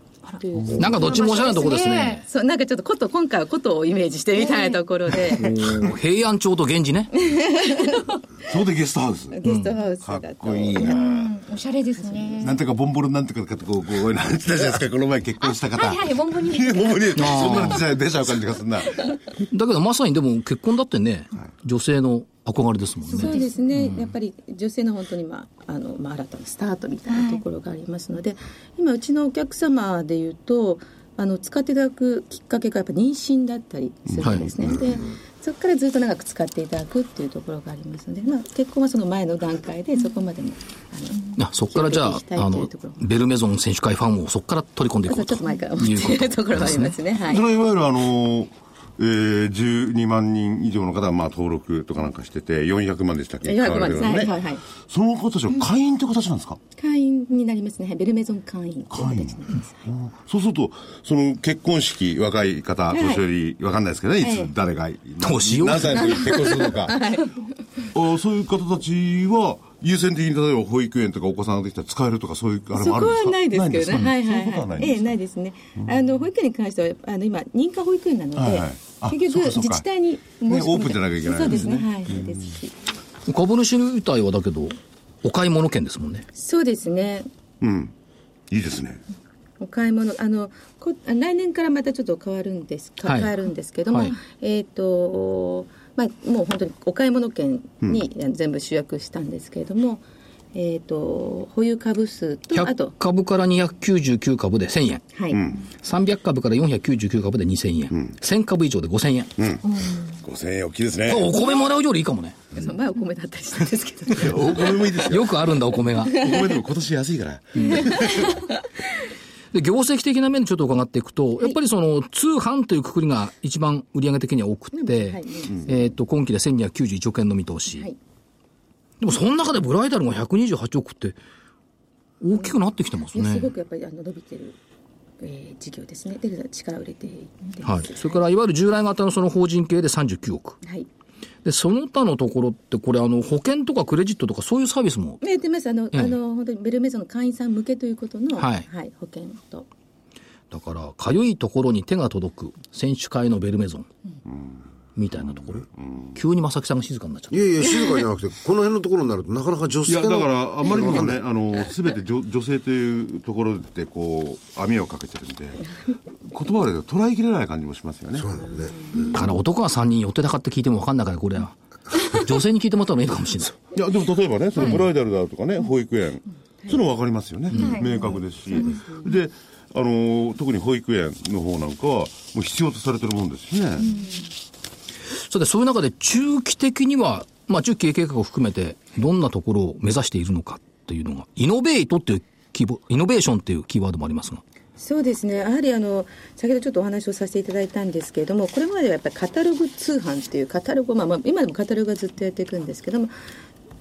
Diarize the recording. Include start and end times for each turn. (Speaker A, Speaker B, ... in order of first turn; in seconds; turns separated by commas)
Speaker A: 0.3-2.2, Speaker B: 0.4-5.6, Speaker C: 0.6-0.9, Speaker D: 0.8-2.2, Speaker A: 4.4-4.8, Speaker D: 5.2-7.1, Speaker B: 7.2-8.2, Speaker C: 8.4-9.4, Speaker B: 9.3-11.0, Speaker D: 9.4-9.7, Speaker C: 10.0-11.3, Speaker A: 10.8-12.6, Speaker B: 12.0-12.6, Speaker C: 12.4-19.2, Speaker A: 15.4-17.6, Speaker D: 17.1-17.8, Speaker D: 19.4-24.1, Speaker A: 23.1-23.6, Speaker B: 23.1-43.0, Speaker A: 27.1-27.4, Speaker C: 34.1-34.7, Speaker D: 34.2-34.5, Speaker D: 41.4-46.9, Speaker B: 45.0-47.4, Speaker C: 47.2-56.6, Speaker B: 53.5-54.6, Speaker B: 56.8-59.9, Speaker C: 58.9-67.0, Speaker B: 62.9-63.2, Speaker B: 64.2-64.5, Speaker D: 65.2-66.2, Speaker B: 66.0-67.4, Speaker C: 67.9-75.1, Speaker B: 72.8-82.7, Speaker C: 78.3-79.8, Speaker C: 80.5-82.4, Speaker D: 83.3-86.2, Speaker B: 86.4-87.3, Speaker C: 87.6-87.9, Speaker C: 88.5-89.0, Speaker B: 89.6-102.9, Speaker D: 93.0-93.3, Speaker D: 93.9-94.1, Speaker D: 102.5-105.0, Speaker B: 105.1-105.4, Speaker C: 105.3-105.6, Speaker D: 105.8-109.3, Speaker C: 109.4-111.3, Speaker D: 111.0-112.5, Speaker B: 112.5-114.8, Speaker C: 114.1-115.3, Speaker D: 115.0-116.2, Speaker C: 116.0-118.4, Speaker B: 118.2-118.4, Speaker D: 119.5-127.9, Speaker B: 124.7-125.7, Speaker D: 129.0-131.2, Speaker D: 132.2-133.5, Speaker B: 133.1-134.6, Speaker B: 135.2-138.1, Speaker D: 137.6-140.6, Speaker B: 140.6-140.9, Speaker D: 141.4-145.2, Speaker B: 145.2-149.7, Speaker D: 148.4-148.7, Speaker D: 150.5-153.9, Speaker C: 154.3-154.6, Speaker D: 154.9-157.5, Speaker C: 155.8-156.2, Speaker E: 157.3-161.2, Speaker C: 159.8-165.7, Speaker C: 166.2-168.5, Speaker E: 168.1-168.8, Speaker D: 169.1-173.6, Speaker C: 173.7-183.9, Speaker D: 177.5-177.8, Speaker A: 177.6-178.1, Speaker A: 183.8-184.2, Speaker D: 185.3-194.4, Speaker B: 194.8-203.1